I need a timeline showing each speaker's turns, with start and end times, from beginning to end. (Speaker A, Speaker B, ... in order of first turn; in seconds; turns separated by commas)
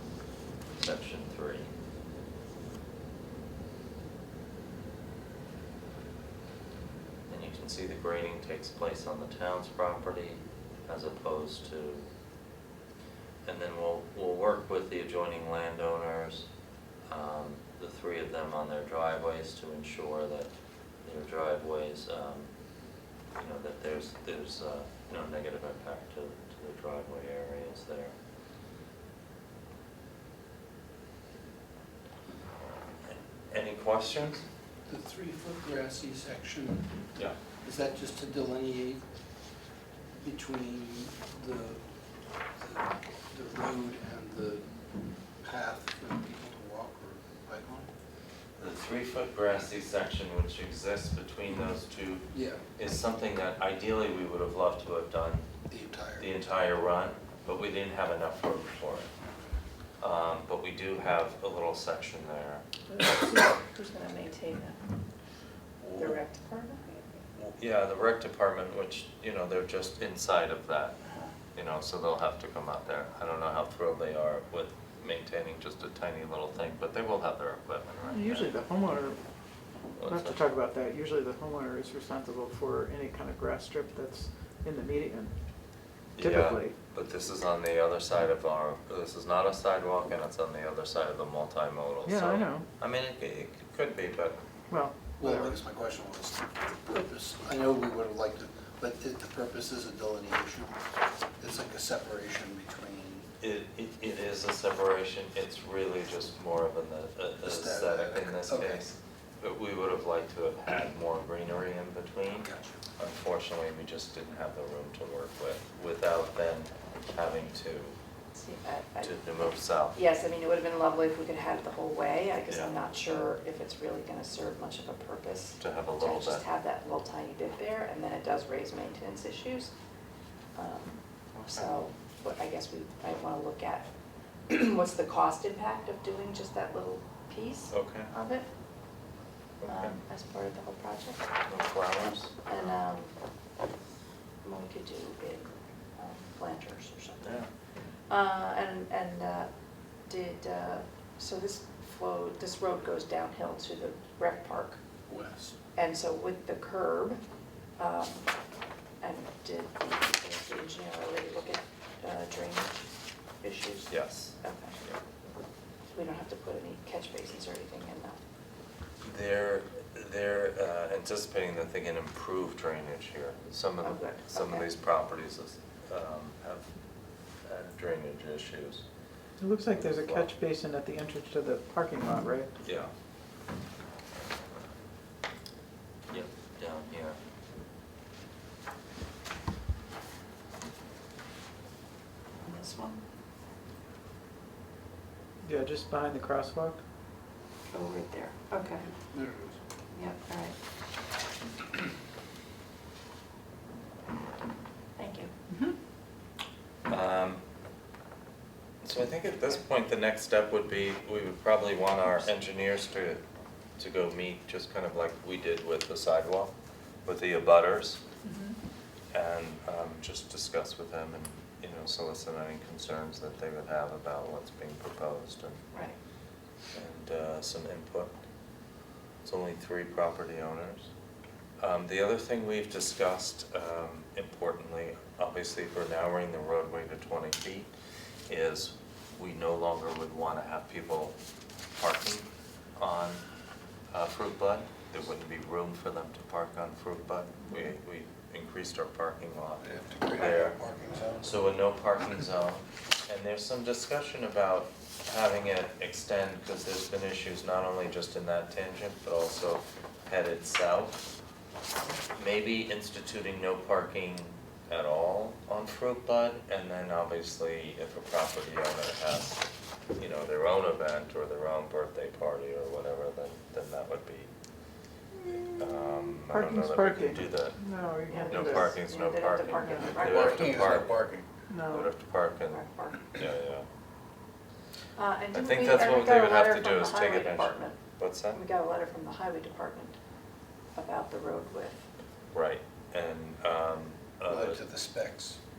Speaker A: 0.8-1.7, Speaker A: 7.3-12.1, Speaker A: 13.4-16.5, Speaker A: 17.1-22.5, Speaker A: 23.3-28.1, Speaker A: 33.1-34.4, Speaker B: 34.9-36.9, Speaker B: 37.6-39.0, Speaker B: 40.2-41.8, Speaker B: 42.6-44.6, Speaker B: 45.4-47.9, Speaker A: 48.6-55.5, Speaker B: 52.3-52.6, Speaker B: 55.7-56.3, Speaker A: 56.2-59.1, Speaker A: 60.0-62.6, Speaker C: 62.9-64.8, Speaker A: 65.8-66.2, Speaker C: 66.0-67.1, Speaker A: 67.3-71.0, Speaker A: 71.5-78.5, Speaker D: 78.1-79.2, Speaker A: 80.0-80.4, Speaker D: 80.1-85.3, Speaker A: 86.2-94.4, Speaker D: 86.2-86.7, Speaker D: 92.0-92.7, Speaker D: 94.7-95.5, Speaker B: 95.2-100.8, Speaker B: 101.4-103.3, Speaker A: 103.4-118.0, Speaker B: 107.4-108.8, Speaker B: 112.3-112.8, Speaker C: 118.3-119.2, Speaker A: 119.0-120.0, Speaker C: 119.9-129.7, Speaker A: 122.5-122.7, Speaker A: 125.6-126.4, Speaker C: 130.5-133.9, Speaker A: 131.3-131.7, Speaker C: 134.5-138.5, Speaker A: 137.7-138.1, Speaker A: 139.6-140.0, Speaker C: 139.7-141.2, Speaker A: 141.4-142.3, Speaker C: 142.4-143.1, Speaker C: 144.4-147.2, Speaker A: 147.2-147.5, Speaker C: 148.1-149.5, Speaker C: 150.1-154.8, Speaker B: 155.1-155.6, Speaker C: 155.8-157.2, Speaker C: 157.8-158.3, Speaker C: 159.0-162.8, Speaker C: 163.4-164.8, Speaker A: 163.9-165.0, Speaker C: 165.9-168.2, Speaker A: 169.0-176.7, Speaker C: 173.8-174.7, Speaker A: 177.4-178.8, Speaker D: 179.4-182.5, Speaker A: 179.7-180.3, Speaker A: 182.6-182.9, Speaker A: 186.1-187.2, Speaker C: 192.4-193.0, Speaker D: 195.4-196.8, Speaker C: 197.7-198.8, Speaker B: 199.1-199.6, Speaker C: 199.9-200.6, Speaker C: 204.9-205.3, Speaker A: 206.9-207.4, Speaker A: 208.8-213.2, Speaker A: 213.8-216.5, Speaker A: 217.1-218.0, Speaker C: 218.2-218.5, Speaker A: 219.1-225.6, Speaker A: 226.7-228.2, Speaker A: 229.2-230.9, Speaker A: 231.6-237.7, Speaker A: 238.3-241.2, Speaker A: 241.7-243.2, Speaker A: 243.9-250.6, Speaker B: 249.6-251.3, Speaker A: 251.2-261.0, Speaker A: 262.1-269.4, Speaker A: 270.0-274.3, Speaker A: 275.4-277.6, Speaker D: 276.3-278.8, Speaker A: 278.1-281.0, Speaker C: 278.1-280.4, Speaker B: 279.9-281.3, Speaker D: 281.5-281.9, Speaker A: 281.7-283.6, Speaker C: 282.5-283.0, Speaker C: 284.9-287.8, Speaker A: 285.3-288.4, Speaker C: 288.3-290.0, Speaker C: 290.7-291.9, Speaker A: 292.3-294.6, Speaker B: 294.3-295.4